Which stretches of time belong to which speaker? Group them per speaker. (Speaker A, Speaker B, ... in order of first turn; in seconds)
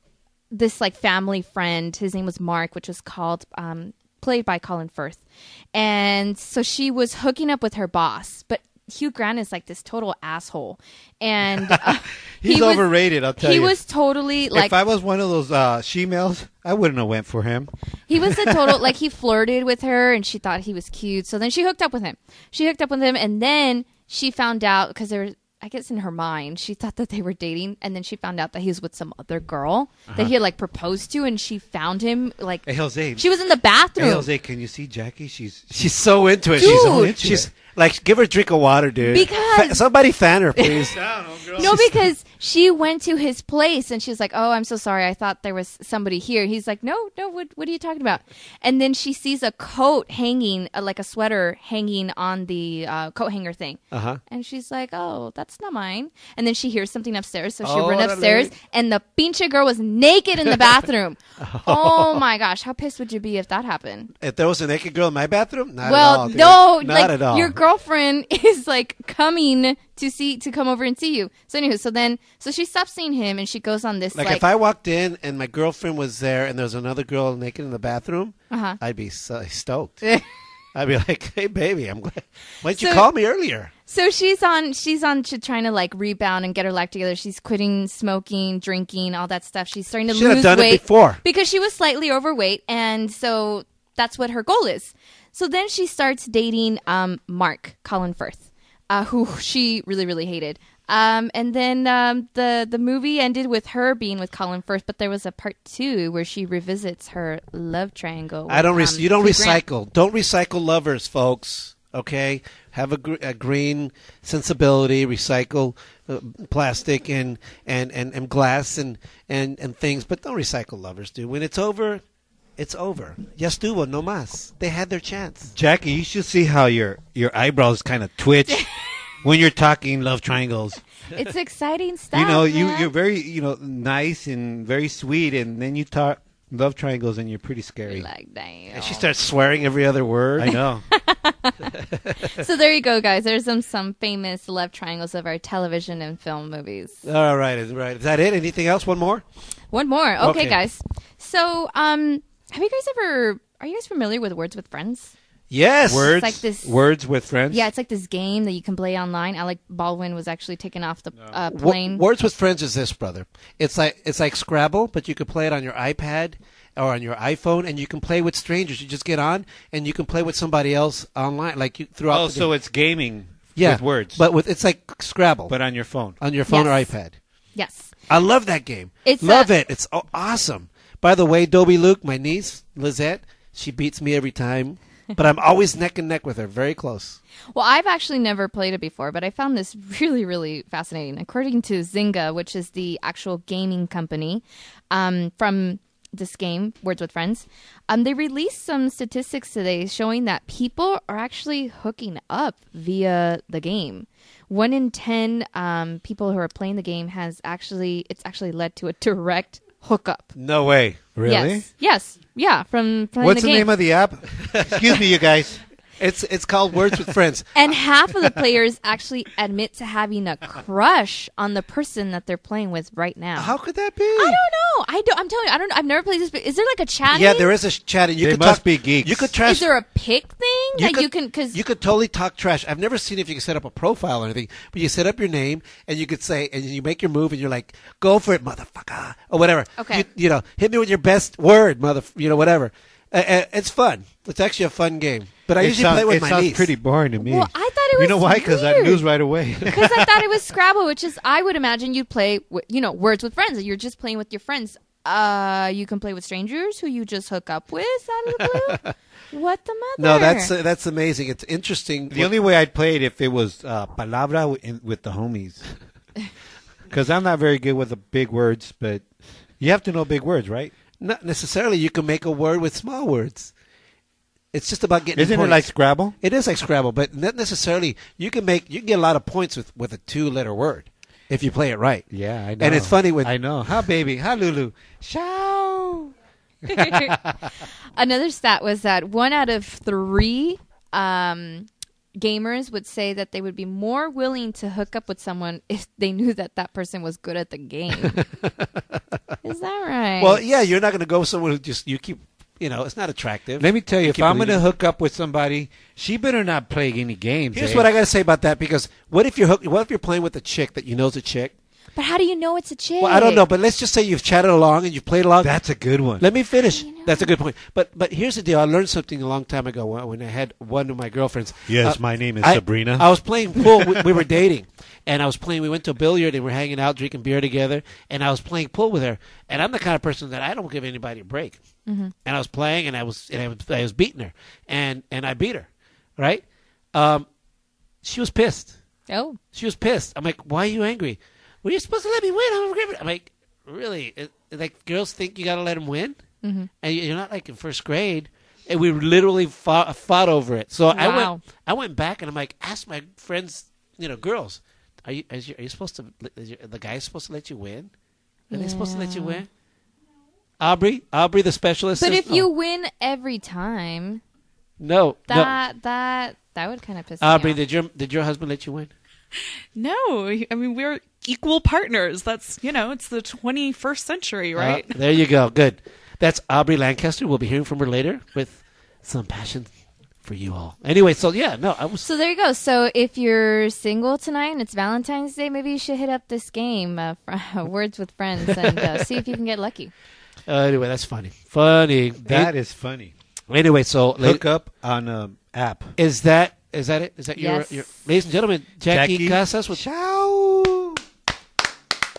Speaker A: 0.5-12.8, 13.4-14.7, 18.1-32.6, 33.1-34.3, 36.6-37.1, 39.1-39.8, 41.6-64.1, 65.8-74.4, 78.5-78.8, 82.7-83.1, 83.9-109.6, 131.1-132.9, 137.9-139.1, 140.9-141.7, 142.2-147.0, 149.7-155.1, 156.0-156.7, 157.5-162.0, 176.5-176.9, 177.6-177.9, 179.0-179.5, 187.5-210.3, 211.2-213.7, 217.5-223.5, 224.1-227.5, 229.4-231.6, 239.8-240.0, 247.2-249.0, 249.7-258.8, 259.3-260.5, 286.7-287.1, 287.9-298.2, 299.4-300.4, 311.9-313.4, 316.8-317.3, 331.9-332.1, 339.1-339.4, 346.4-346.7, 350.9-351.4, 358.5-359.4, 362.0-364.2, 365.3-367.6, 382.0-389.9, 397.4-397.9
Speaker B: 12.4-13.7, 14.5-18.8, 32.6-33.2, 34.0-35.8, 36.5-37.5, 40.8-41.8, 125.5-128.6, 129.2-130.8, 132.1-138.1, 140.4-140.8, 155.9-157.7, 172.1-174.2, 175.5-176.2, 211.1-211.7, 213.2-215.6, 228.2-229.3, 245.6-250.1, 262.1-265.6, 266.9-269.1, 269.6-270.7, 275.1-276.1, 282.1-286.1, 286.6-287.4, 303.6-307.9, 315.4-316.2, 321.7-323.1, 323.6-324.0, 392.2-393.1, 394.2-395.9, 398.9-401.0
Speaker C: 35.7-41.0, 41.6-41.9, 53.9-54.2, 57.6-58.5, 61.4-62.2, 64.2-67.6, 74.2-80.0, 80.7-83.7, 90.1-91.2, 108.5-122.0, 122.6-125.5, 138.7-140.6, 142.0-142.2, 147.0-149.2, 150.2-150.6, 155.5-156.1, 161.5-172.5, 173.6-175.5, 176.2-177.1, 178.1-187.2, 210.3-211.1, 216.0-217.5, 223.4-224.1, 227.1-229.7, 230.8-246.7, 258.6-258.9, 260.0-262.3, 271.0-273.5, 274.5-275.7, 276.2-282.1, 282.6-283.3, 298.0-298.6, 300.2-304.6, 307.5-311.5, 313.0-315.6, 316.2-331.6, 332.2-335.7, 336.2-336.4, 336.9-337.2, 338.0-338.8, 339.5-346.2, 346.8-357.9, 358.5-359.5, 360.6-362.5, 364.8-365.6, 367.2-368.9, 374.5-379.7, 380.2-382.1, 390.5-392.5, 393.5-394.4, 396.0-399.8
Speaker D: 369.8-374.9